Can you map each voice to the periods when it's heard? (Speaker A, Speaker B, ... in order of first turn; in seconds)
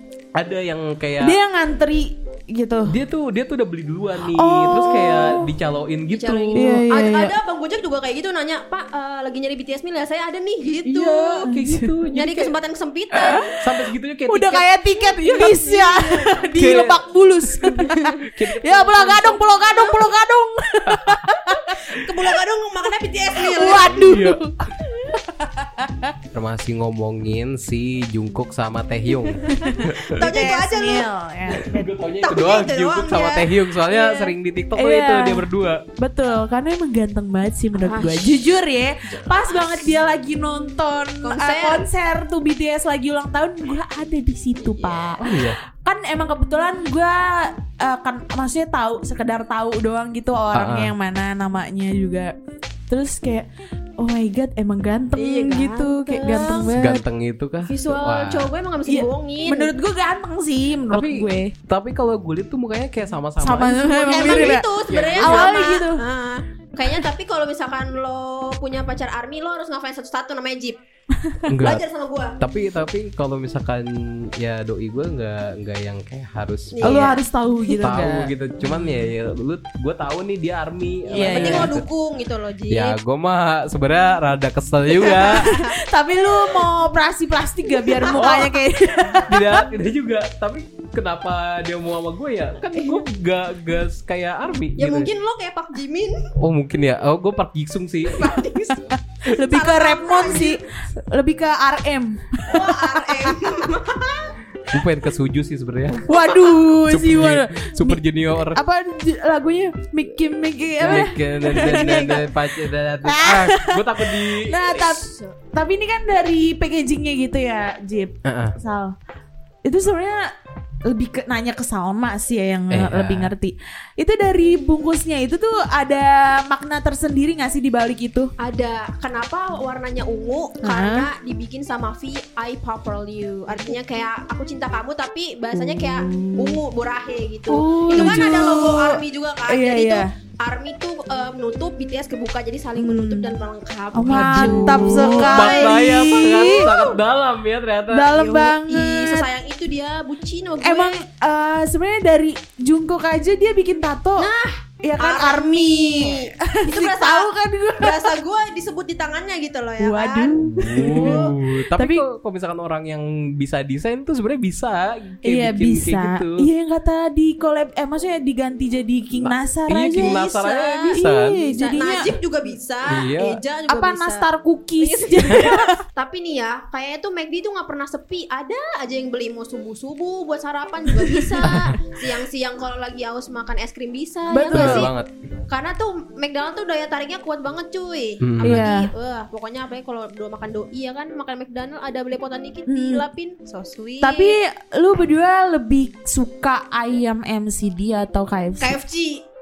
Speaker A: 0.4-1.4, 2.9-6.8, 10.8-12.5, 13.6-14.6, 16.6-17.0, 18.4-19.1, 20.9-21.2, 24.0-24.5, 26.3-30.1, 31.5-35.8, 45.2-45.6, 50.5-51.0, 56.7-58.5, 60.9-65.5, 71.5-71.8, 72.4-77.1, 77.8-81.9, 82.7-85.4, 88.1-88.5, 89.2-95.1, 96.4-98.3, 104.7-108.6, 110.8-115.0, 118.3-118.5, 122.7-123.3, 137.9-138.3, 144.1-148.1, 160.5-166.5, 169.2-171.4, 172.9-173.4, 175.3-175.6, 181.4-181.7, 184.5-185.1, 188.2-188.7
Speaker B: 1.2-3.0, 4.3-5.5, 6.5-7.3, 11.5-12.0, 13.2-13.5, 14.3-21.8, 23.4-24.6, 25.1-26.1, 29.4-31.9, 34.8-52.3, 52.9-57.0, 58.9-61.5, 63.4-64.7, 65.2-66.0, 71.3-71.6, 76.8-79.1, 81.1-81.7, 85.0-89.6, 98.7-103.3, 106.1-112.4, 113.0-118.9, 119.7-120.2, 120.9-128.3, 130.6-131.1, 135.6-136.6, 137.5-140.1, 142.8-143.3, 143.9-146.6, 147.9-149.3, 150.6-154.3, 154.8-158.1, 159.8-162.1, 165.2-170.2, 170.9-172.2, 173.7-175.8, 181.0-181.7, 184.3-184.9, 188.4-188.9, 192.7-193.0, 194.0-198.8
Speaker C: 6.1-11.5, 12.1-13.5, 14.6-16.5, 18.9-19.9, 21.9-24.1, 29.5-31.1, 32.2-34.2, 37.7-38.6, 39.1-39.9, 41.2-41.9, 44.6-45.2, 55.1-56.7, 57.7-59.8, 64.1-70.8, 71.6-72.3, 76.7-77.8, 81.1-83.0, 85.0-85.7, 87.8-88.3, 92.6-93.0, 94.8-96.2, 98.2-98.9, 99.5-100.6, 102.5-104.3, 106.2-106.5, 128.4-146.9, 148.1-151.0, 154.2-157.3, 157.8-161.3, 170.0-174.3, 174.8-184.9, 185.5-194.4, 198.6-199.2